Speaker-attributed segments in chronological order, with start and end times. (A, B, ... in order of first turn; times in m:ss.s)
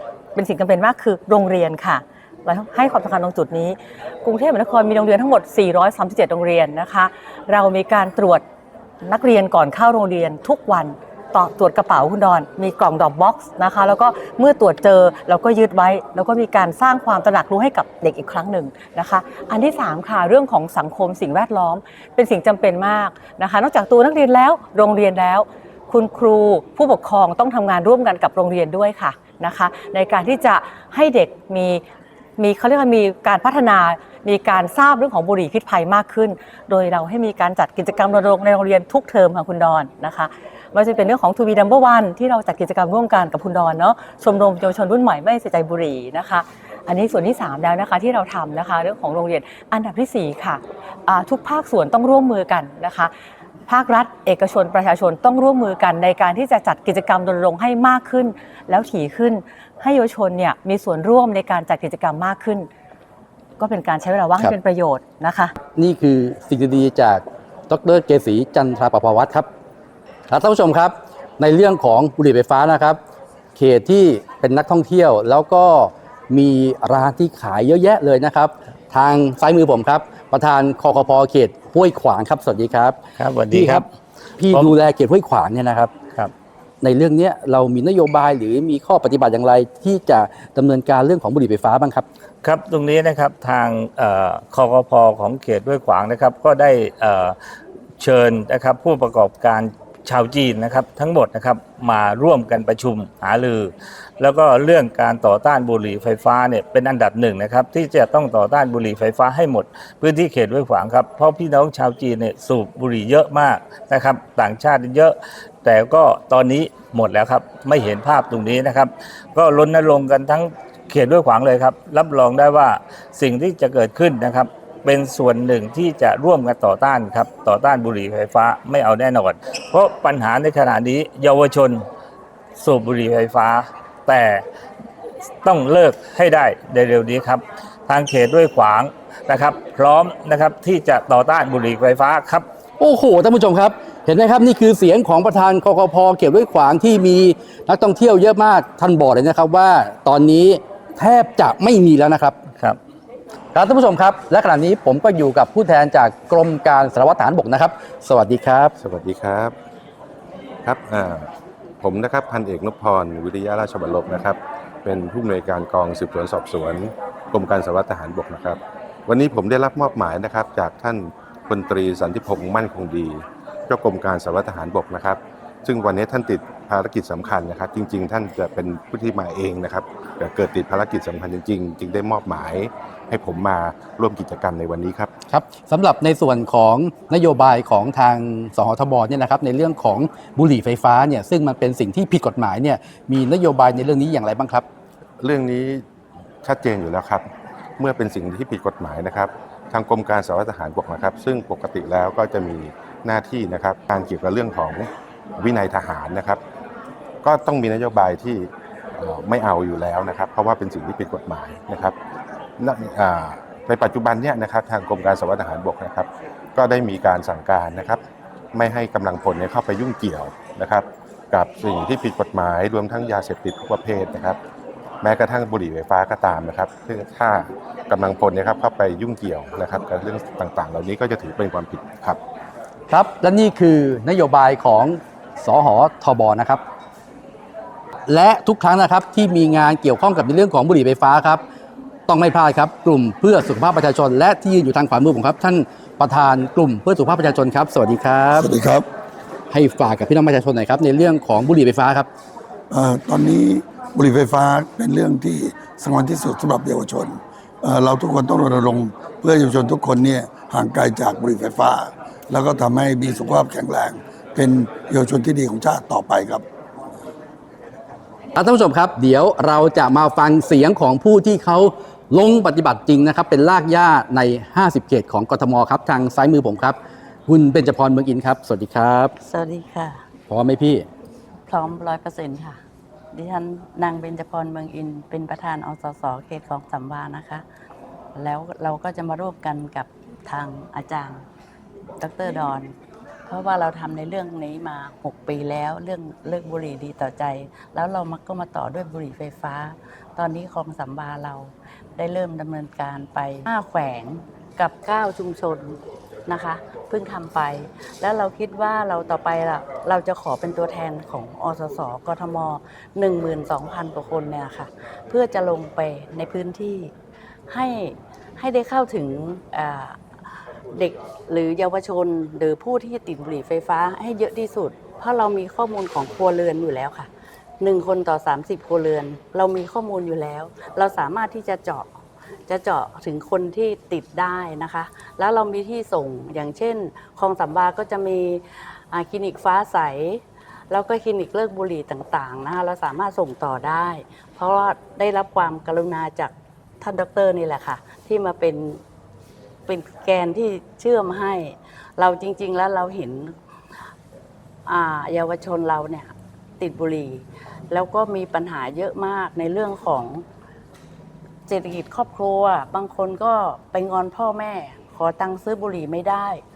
0:00.4-0:08.4 A
0:09.0-0:31.8 A
0:32.4-0:53.1 A
0:53.7-1:02.7 A
1:03.6-1:05.5 A
1:05.7-1:09.5 B
1:10.3-1:13.0 B
1:13.6-1:23.0 B
1:23.2-1:23.9 C
1:23.5-1:23.9 B
1:24.4-1:25.9 B
1:24.5-1:24.8 C
1:26.8-1:32.1 B
1:32.4-1:37.4 C
1:38.0-2:11.9 C
2:12.6-2:14.4 C
2:15.4-2:22.5 C
2:22.8-2:32.4 B
2:33.5-2:38.7 B
2:38.8-2:39.5 D
2:40.6-2:41.3 D
2:41.8-3:05.1 D
3:05.3-3:14.6 B
3:15.2-3:15.8 D
3:16.4-3:17.2 D
3:17.8-3:26.4 D
3:27.2-3:28.5 D
3:29.0-3:32.0 D
3:32.6-3:38.0 D
3:38.5-3:44.4 D
3:45.0-3:52.2 D
3:52.9-3:56.6 B
3:58.1-4:01.4 B
4:02.1-4:08.5 B
4:08.3-4:08.9 E
4:09.5-4:12.1 B
4:12.7-4:26.5 E
4:28.4-4:39.1 B
4:39.2-4:40.0 F
4:40.3-4:40.9 B
4:41.5-4:42.6 F
4:43.1-4:47.4 F
4:48.2-4:51.2 F
4:52.0-4:52.7 F
4:53.3-5:16.9 F
5:17.5-5:20.0 F
5:20.7-5:27.1 F
5:27.6-5:48.8 F
5:49.7-5:53.4 F
5:54.7-6:00.2 F
6:01.5-6:06.4 F